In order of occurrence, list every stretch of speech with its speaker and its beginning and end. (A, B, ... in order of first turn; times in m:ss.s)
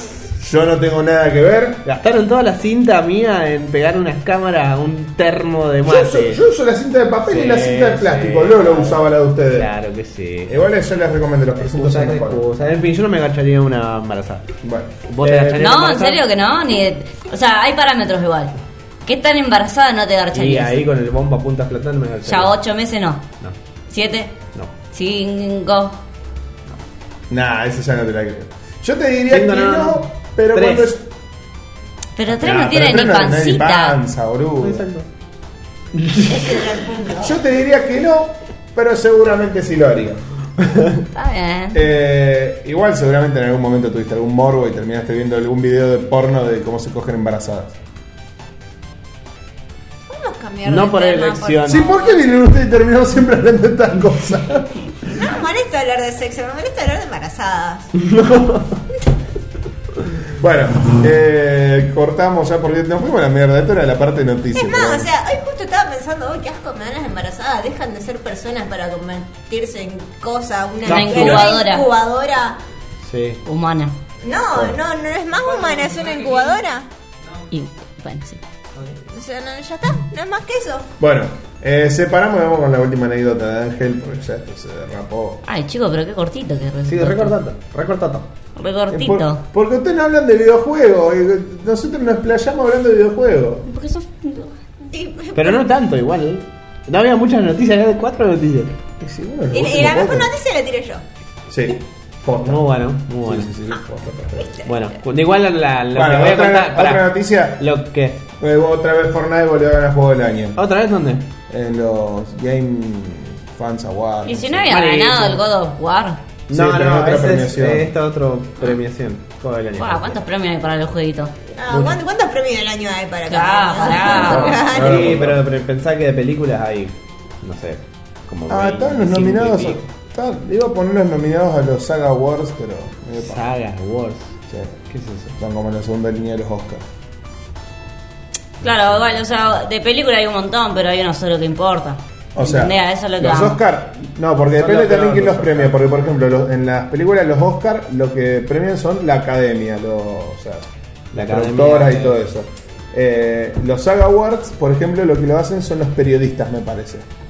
0:00.3-0:01.8 A
0:01.8-0:06.4 B
0:05.8-0:09.7 A
0:07.2-0:10.7 B
0:10.5-0:12.4 A
0:11.6-0:14.5 B
0:14.6-0:15.6 A
0:15.1-0:16.2 B
0:15.5-0:18.5 C
0:19.0-0:20.8 C
0:20.3-0:22.6 B
0:22.2-0:23.2 C
0:23.9-0:24.3 C
0:24.9-0:26.0 C
0:27.3-0:31.1 A
0:29.3-0:30.9 B
0:32.2-0:34.0 C
0:32.3-0:34.8 A
0:34.6-0:35.1 B
0:35.9-0:36.5 B
0:36.2-0:37.4 D
0:37.2-0:40.2 A
0:40.6-0:41.0 B
0:41.1-0:41.8 C
0:41.7-0:47.7 A
0:50.1-0:52.2 D
0:50.6-0:51.9 B
0:51.6-0:54.8 A
0:55.1-0:57.9 D
0:58.0-0:58.8 B
1:00.4-1:05.1 A
1:04.5-1:12.6 D
1:10.8-1:11.8 C
1:10.8-1:11.5 B
1:13.0-1:13.4 B
1:13.4-1:13.9 C
1:14.2-1:16.9 D
1:14.5-1:14.8 A
1:17.5-1:18.4 C
1:19.1-1:20.9 D
1:21.0-1:25.4 A
1:25.4-1:27.4 C
1:26.8-1:28.3 B
1:28.6-1:29.4 C
1:28.9-1:33.7 A
1:33.7-1:34.5 C
1:34.9-1:35.6 D
1:35.3-1:38.8 B
1:39.0-1:40.3 A
1:39.5-1:41.0 D
1:41.5-1:42.7 A
1:42.4-1:43.5 B
1:43.2-1:44.6 A
1:44.4-1:44.7 D
1:44.6-1:48.2 B
1:45.9-1:47.6 A
1:48.4-1:50.6 A
1:50.6-1:51.3 B
1:51.5-1:54.8 A
1:54.2-1:56.2 C
1:54.7-1:55.4 B
1:56.5-2:00.2 B
1:56.5-1:57.9 A
1:59.8-2:01.3 C
2:01.6-2:05.1 D
2:01.7-2:02.0 B
2:03.3-2:04.6 C
2:04.0-2:09.9 B
2:04.1-2:05.4 A
2:08.5-2:13.4 A
2:13.2-2:14.3 B
2:14.5-2:14.8 A
2:14.9-2:15.3 B
2:15.3-2:16.8 A
2:18.6-2:23.6 C
2:22.3-2:37.0 A
2:24.5-2:25.7 B
2:31.1-2:32.2 B